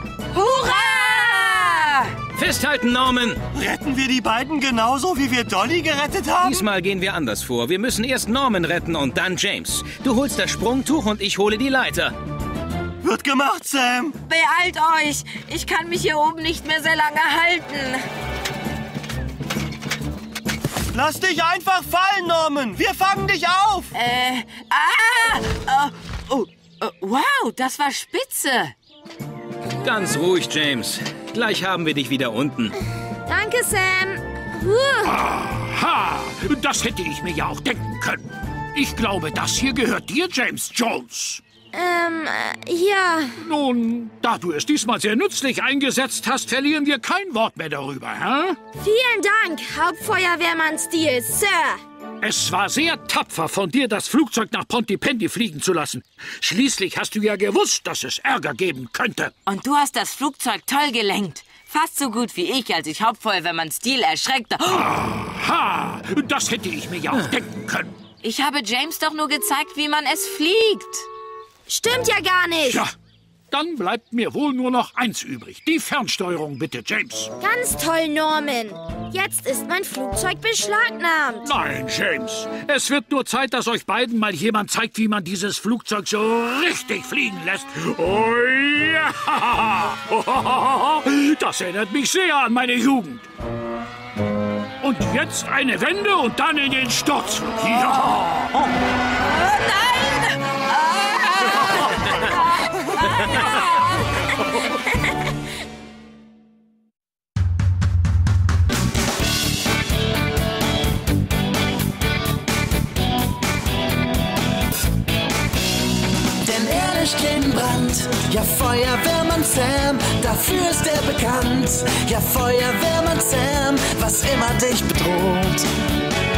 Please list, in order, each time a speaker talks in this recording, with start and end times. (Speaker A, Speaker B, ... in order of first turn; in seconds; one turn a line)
Speaker A: 0.3-2.1
Speaker B: 0.4-1.8
Speaker C: 2.2-3.4
Speaker D: 3.5-6.7
Speaker C: 6.4-12.2
Speaker D: 13.0-14.2
Speaker A: 14.3-18.1
Speaker D: 20.9-23.9
Speaker A: 24.0-28.7
Speaker C: 29.8-32.7
Speaker B: 33.2-35.2
Speaker E: 35.0-41.4
Speaker B: 41.7-43.4
Speaker E: 43.4-48.6
Speaker B: 48.8-51.8
Speaker E: 52.2-59.3
Speaker A: 59.5-64.8
Speaker E: 64.7-68.0
Speaker A: 68.2-71.0
Speaker B: 71.7-72.8
Speaker E: 72.6-72.9
Speaker E: 73.5-77.3
Speaker B: 77.4-81.5
Speaker E: 81.4-93.3
Speaker E: 94.8-98.6
Speaker A: 99.2-101.6
Speaker A: 102.8-103.7
Speaker C: 103.1-103.5
Speaker F: 116.4-125.7